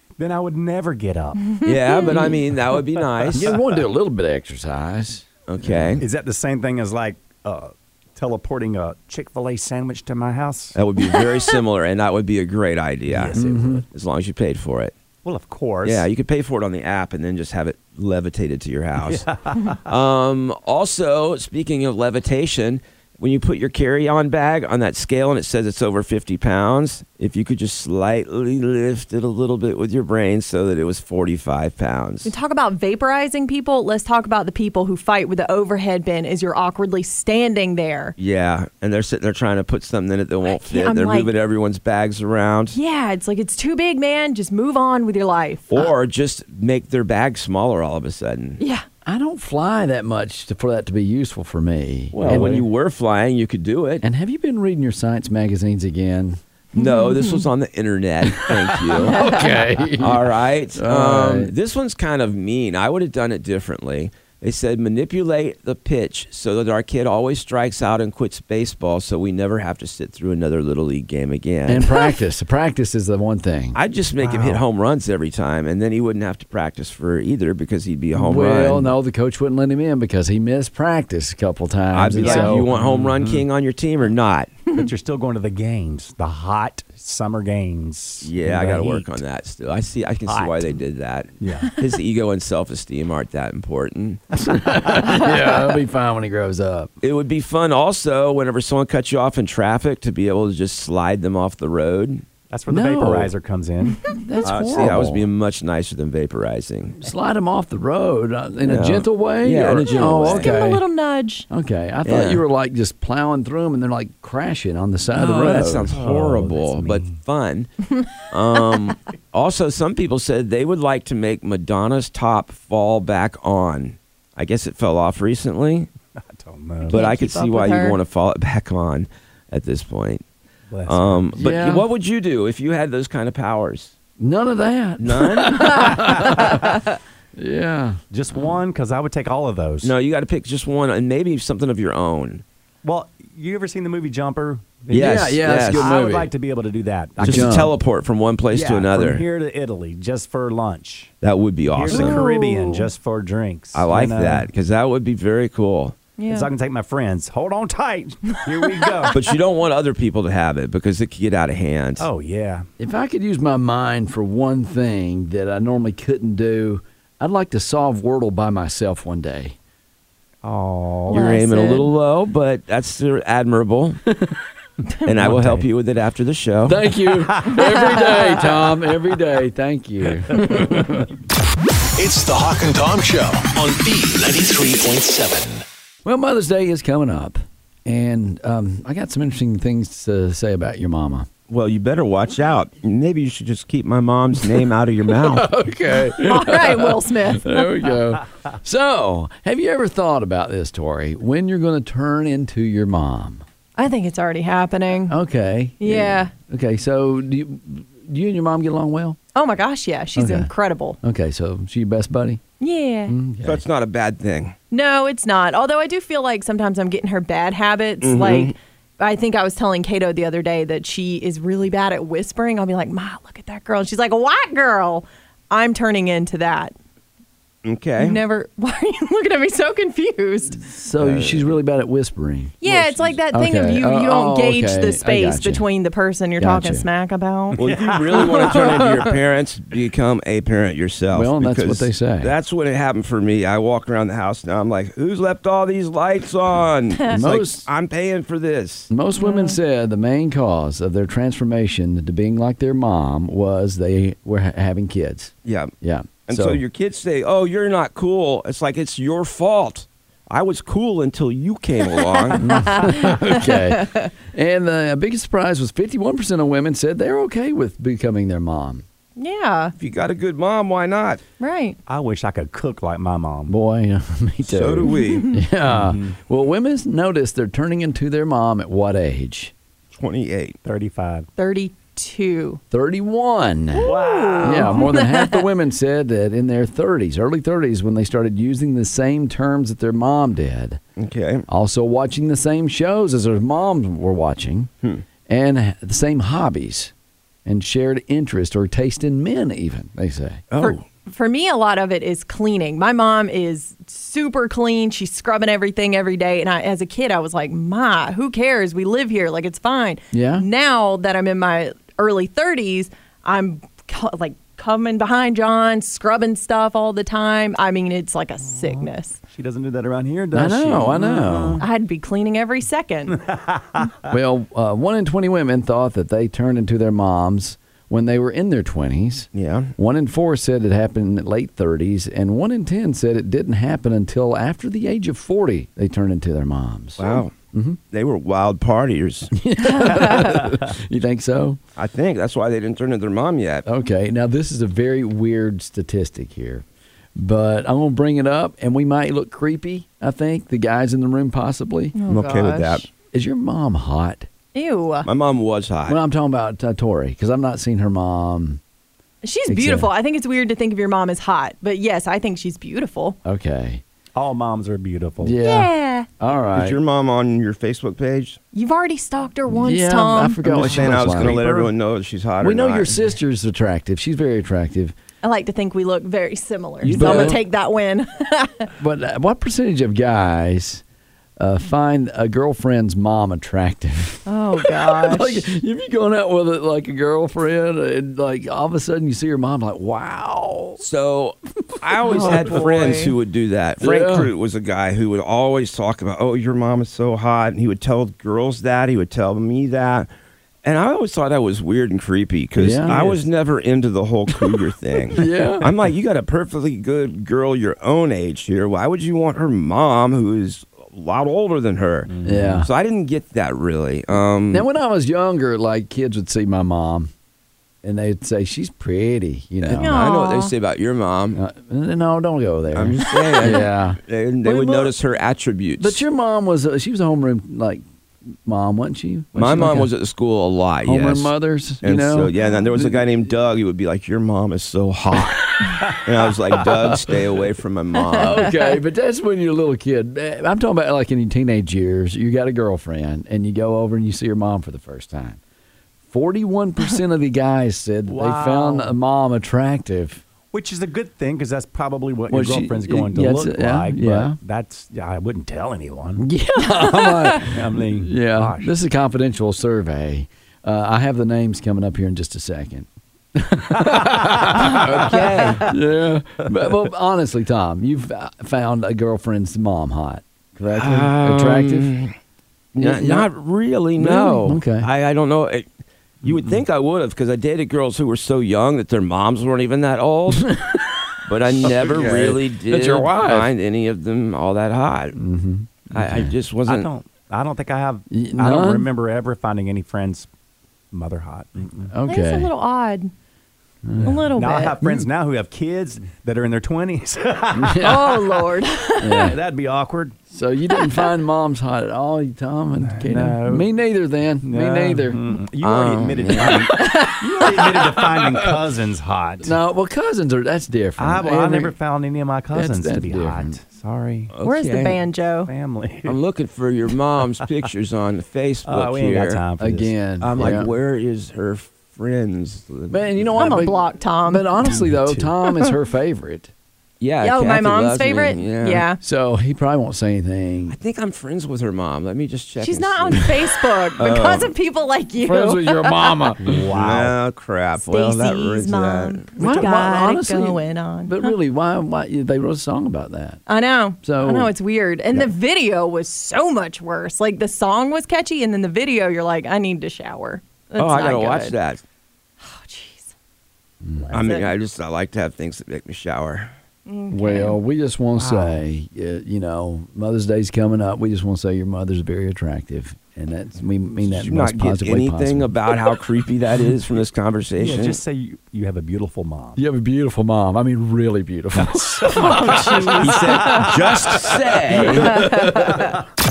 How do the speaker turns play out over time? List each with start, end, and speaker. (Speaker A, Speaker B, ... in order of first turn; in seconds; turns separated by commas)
Speaker A: 0.2-3.8, Speaker B: 1.6-2.3, Speaker C: 1.6-3.5, Speaker D: 3.3-5.2, Speaker C: 5.5-6.0, Speaker A: 6.0-10.8, Speaker C: 10.7-14.9, Speaker A: 13.1-13.5, Speaker D: 13.3-13.8, Speaker A: 15.2-16.1, Speaker C: 15.8-19.3, Speaker A: 19.0-19.8, Speaker C: 19.9-32.3, Speaker B: 32.2-38.1, Speaker C: 38.2-42.8, Speaker B: 40.5-41.3, Speaker B: 42.7-45.9, Speaker C: 45.7-48.6, Speaker B: 48.6-48.8, Speaker D: 49.0-52.6, Speaker C: 52.1-54.0, Speaker A: 52.1-52.6, Speaker D: 54.0-56.4, Speaker C: 56.7-59.3, Speaker B: 56.8-57.4, Speaker D: 58.5-61.5, Speaker C: 60.0-72.0, Speaker D: 71.7-73.8, Speaker C: 73.7-78.9, Speaker A: 74.2-74.6, Speaker D: 78.1-82.7, Speaker C: 81.9-84.5, Speaker B: 82.2-82.5, Speaker A: 82.7-83.4, Speaker A: 84.7-89.1, Speaker C: 88.2-94.2, Speaker A: 90.2-90.8, Speaker A: 91.4-91.8, Speaker A: 94.3-95.0, Speaker D: 94.4-96.9, Speaker C: 97.0-102.2, Speaker A: 102.5-105.0, Speaker D: 102.7-103.3, Speaker D: 104.1-105.3, Speaker C: 104.5-107.0, Speaker D: 107.0-110.8, Speaker C: 108.6-110.5, Speaker B: 110.0-111.5, Speaker D: 111.5-116.0, Speaker C: 112.0-112.4, Speaker C: 115.2-117.7, Speaker A: 115.9-117.2, Speaker C: 118.3-125.9, Speaker A: 126.2-127.1, Speaker C: 126.9-130.2, Speaker B: 126.9-128.0, Speaker A: 130.7-131.3, Speaker C: 130.8-133.9, Speaker D: 131.4-131.9, Speaker D: 134.2-136.7, Speaker C: 135.0-135.8, Speaker D: 137.3-138.0, Speaker A: 138.1-139.9, Speaker C: 139.8-142.4, Speaker A: 142.8-147.7, Speaker C: 144.9-145.9, Speaker D: 144.9-146.3, Speaker D: 147.2-147.7, Speaker C: 147.2-149.2, Speaker A: 148.5-151.1, Speaker C: 151.2-152.3, Speaker A: 151.7-154.5, Speaker B: 151.9-152.9, Speaker C: 153.7-156.0, Speaker B: 156.2-156.5, Speaker A: 156.3-159.2, Speaker C: 159.1-162.1, Speaker A: 162.0-162.7, Speaker D: 162.8-169.6, Speaker A: 170.4-171.3, Speaker B: 171.1-171.9, Speaker C: 171.1-174.0, Speaker C: 175.1-176.9, Speaker A: 175.3-175.6, Speaker D: 176.6-181.1, Speaker B: 177.5-178.3, Speaker E: 181.9-185.6, Speaker D: 186.0-191.3, Speaker C: 191.5-195.5, Speaker D: 195.1-203.4, Speaker B: 196.2-197.7, Speaker B: 203.8-205.2, Speaker D: 205.1-209.2, Speaker B: 205.8-206.3, Speaker B: 209.3-211.0, Speaker D: 210.1-210.5, Speaker D: 211.0-212.4, Speaker B: 212.6-213.1, Speaker D: 213.1-213.6, Speaker C: 213.4-214.5, Speaker B: 214.7-226.7, Speaker C: 218.0-218.5, Speaker C: 227.6-228.2, Speaker B: 228.0-230.6, Speaker D: 230.5-235.6, Speaker C: 231.0-231.5, Speaker B: 232.6-239.1, Speaker D: 236.4-236.8, Speaker A: 237.5-238.7, Speaker C: 237.6-248.9, Speaker D: 241.1-242.3, Speaker D: 247.1-247.7, Speaker D: 248.9-256.6, Speaker B: 249.2-249.6, Speaker C: 255.4-255.7, Speaker C: 256.2-262.4, Speaker D: 262.4-268.8, Speaker B: 262.5-264.1, Speaker B: 269.2-269.7, Speaker C: 269.8-271.2, Speaker B: 271.4-271.8, Speaker A: 271.9-273.5, Speaker D: 273.5-279.5, Speaker C: 274.5-275.3, Speaker A: 275.7-276.1, Speaker C: 279.9-280.6, Speaker A: 280.6-281.3, Speaker B: 281.4-282.6, Speaker D: 282.7-283.9, Speaker B: 283.8-285.4, Speaker A: 283.8-284.8, Speaker D: 284.4-290.8, Speaker C: 291.0-291.4, Speaker D: 291.5-294.7, Speaker D: 295.3-296.9, Speaker D: 297.4-300.4, Speaker C: 300.5-300.8, Speaker B: 300.6-319.2, Speaker D: 310.1-310.4, Speaker A: 318.5-321.6, Speaker D: 320.3-321.6, Speaker B: 321.6-323.2, Speaker A: 323.1-323.9, Speaker D: 324.1-337.8, Speaker C: 329.3-329.7, Speaker C: 337.0-337.3, Speaker C: 337.9-339.3, Speaker D: 339.3-341.6, Speaker B: 339.6-340.4, Speaker C: 341.8-343.6, Speaker D: 343.6-351.9, Speaker B: 351.9-352.9, Speaker C: 352.1-352.9, Speaker D: 353.1-354.3, Speaker B: 354.5-355.1, Speaker C: 355.0-356.0, Speaker D: 355.9-358.6, Speaker B: 359.2-363.2, Speaker D: 359.5-359.9, Speaker D: 363.2-363.8, Speaker A: 364.1-365.4, Speaker D: 365.2-366.8, Speaker B: 365.4-366.1, Speaker C: 366.5-368.4, Speaker B: 368.5-370.6, Speaker D: 369.5-371.7, Speaker C: 370.4-372.9, Speaker A: 371.2-371.6, Speaker D: 372.4-374.9, Speaker B: 375.2-378.7, Speaker C: 376.8-377.4, Speaker D: 376.9-377.4, Speaker D: 378.8-380.8, Speaker D: 381.4-390.8, Speaker B: 384.2-385.5, Speaker C: 390.8-400.1, Speaker D: 392.1-392.6, Speaker B: 392.1-393.1, Speaker D: 393.8-394.3, Speaker C: 400.6-414.7, Speaker D: 402.6-403.0, Speaker A: 402.9-403.2, Speaker D: 405.1-405.7, Speaker A: 412.1-412.6, Speaker D: 412.2-412.7, Speaker D: 414.5-417.1, Speaker D: 417.8-420.0, Speaker C: 419.6-421.4, Speaker B: 419.7-420.5, Speaker D: 421.3-424.9, Speaker C: 422.7-426.0, Speaker D: 425.8-429.9, Speaker C: 429.3-438.5, Speaker D: 430.8-433.0, Speaker D: 438.2-445.4, Speaker D: 446.1-450.2, Speaker A: 448.1-448.9, Speaker A: 450.5-456.2, Speaker D: 452.3-454.4, Speaker D: 456.2-471.9, Speaker B: 456.8-457.4, Speaker A: 457.4-458.7, Speaker A: 463.8-464.9, Speaker C: 465.1-465.7, Speaker B: 465.1-465.4, Speaker C: 470.7-472.1, Speaker C: 472.7-475.7, Speaker D: 472.8-473.3, Speaker D: 474.0-474.9, Speaker C: 476.2-480.6, Speaker D: 480.3-481.0, Speaker C: 481.2-485.2, Speaker D: 481.6-483.5, Speaker A: 481.6-482.3, Speaker D: 485.1-486.3, Speaker C: 485.9-486.9, Speaker A: 486.6-490.3, Speaker D: 488.1-488.9, Speaker A: 490.9-491.9, Speaker D: 491.9-492.5, Speaker B: 492.1-493.1, Speaker D: 493.8-494.3, Speaker B: 494.0-494.8, Speaker A: 494.1-498.1, Speaker D: 494.8-495.1, Speaker D: 497.5-498.2, Speaker B: 497.8-499.3, Speaker D: 499.0-499.4, Speaker A: 499.2-500.2, Speaker D: 500.3-505.2, Speaker A: 502.9-503.7, Speaker A: 504.4-509.6, Speaker C: 505.6-506.7, Speaker B: 506.7-507.4, Speaker D: 508.2-508.5, Speaker D: 509.4-511.7, Speaker A: 511.0-514.3, Speaker D: 512.5-513.6, Speaker C: 514.3-515.0, Speaker B: 514.4-515.5, Speaker A: 515.4-516.2, Speaker C: 516.0-519.4, Speaker A: 518.6-520.7, Speaker D: 519.6-520.7, Speaker C: 520.3-523.6, Speaker D: 522.9-526.5, Speaker B: 523.4-524.5, Speaker A: 524.7-525.3, Speaker C: 527.0-528.9, Speaker B: 527.2-529.0, Speaker D: 529.0-530.8, Speaker C: 530.7-533.3, Speaker B: 532.6-536.3, Speaker C: 534.0-534.5, Speaker D: 535.2-536.6, Speaker A: 536.4-537.1, Speaker C: 536.7-539.3, Speaker B: 537.9-541.3, Speaker D: 539.4-543.4, Speaker B: 543.5-551.5, Speaker D: 544.0-544.5, Speaker C: 550.8-551.8, Speaker B: 552.4-553.1, Speaker D: 553.8-554.2, Speaker B: 554.1-554.5, Speaker C: 554.1-556.5, Speaker B: 556.9-557.6, Speaker D: 557.1-565.5, Speaker A: 558.2-558.6, Speaker C: 564.0-568.0, Speaker A: 567.6-569.6, Speaker D: 569.6-573.7, Speaker A: 571.6-576.0, Speaker C: 573.0-575.3, Speaker B: 575.1-575.7